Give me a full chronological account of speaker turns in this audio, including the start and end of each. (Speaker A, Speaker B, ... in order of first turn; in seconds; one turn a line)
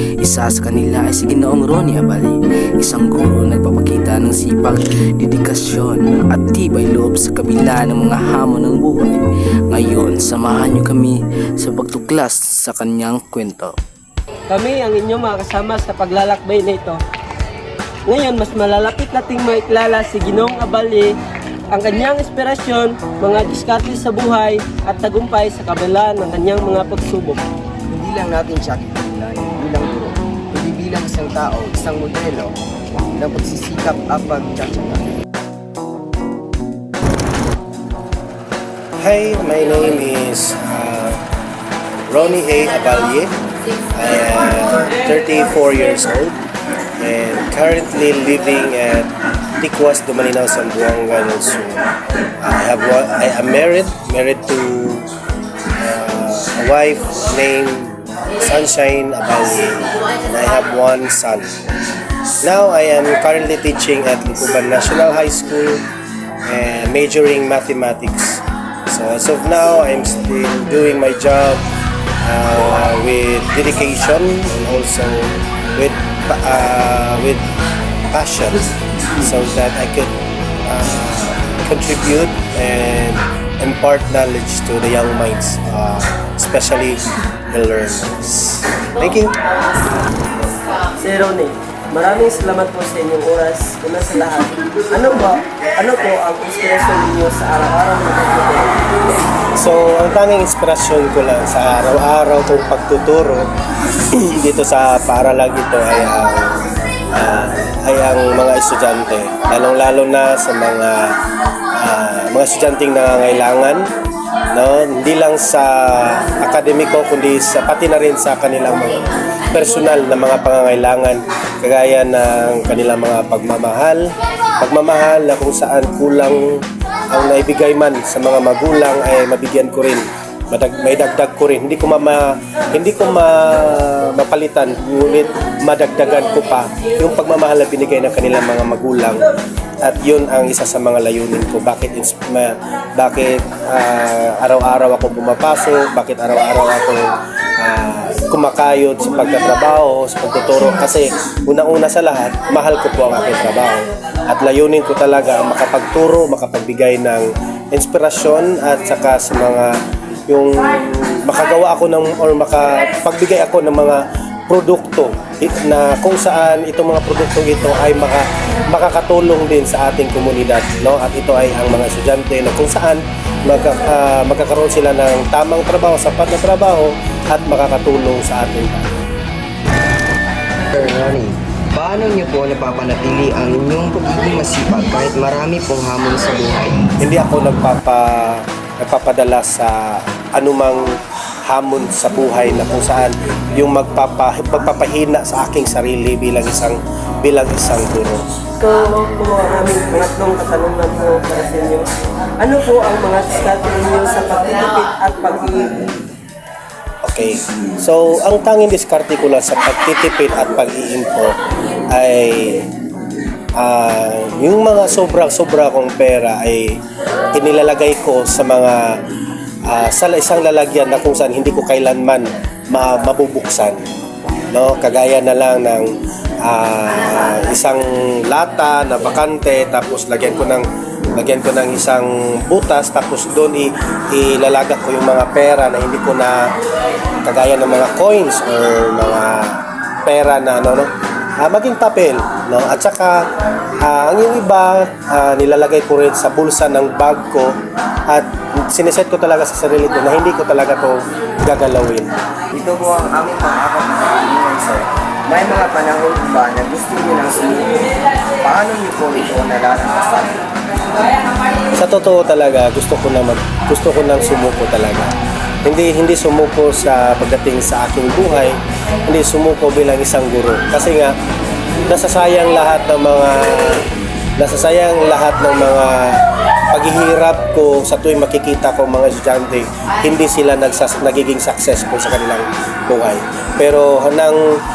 Speaker A: 0.2-13.8
Speaker B: 14.5-17.0
Speaker B: 18.1-21.1
Speaker B: 21.7-27.4
Speaker C: 27.9-32.5
Speaker C: 33.1-35.2
Speaker D: 39.0-41.2
Speaker D: 42.1-43.3
Speaker D: 44.0-46.4
Speaker D: 47.0-51.8
Speaker D: 52.4-55.1
Speaker D: 55.8-61.5
Speaker D: 62.4-65.8
Speaker D: 66.5-71.6
Speaker D: 72.2-77.4
Speaker D: 78.1-78.6
Speaker D: 79.2-80.1
Speaker D: 80.7-87.0
Speaker D: 87.5-89.3
Speaker B: 91.0-98.8
Speaker D: 99.6-103.5
Speaker D: 104.0-111.2
Speaker D: 111.8-113.8
Speaker D: 114.5-124.0
Speaker D: 124.6-139.2
Speaker D: 139.8-159.7
Speaker D: 160.3-179.0
Speaker C: 180.7-186.9
Speaker D: 187.0-190.8
Speaker D: 191.4-198.2
Speaker B: 198.6-201.9
Speaker B: 202.4-205.9
Speaker D: 207.1-211.4
Speaker D: 211.9-212.7
Speaker D: 213.6-216.8
Speaker D: 217.3-219.0
Speaker D: 219.7-223.8
Speaker D: 224.5-225.9
Speaker D: 226.4-236.4
Speaker D: 237.2-243.2
Speaker D: 243.8-247.5
Speaker D: 248.1-252.1
Speaker C: 252.5-260.3
Speaker D: 261.8-265.1
Speaker D: 265.6-271.1
Speaker D: 271.9-273.8
Speaker D: 274.4-276.2
Speaker D: 276.7-284.4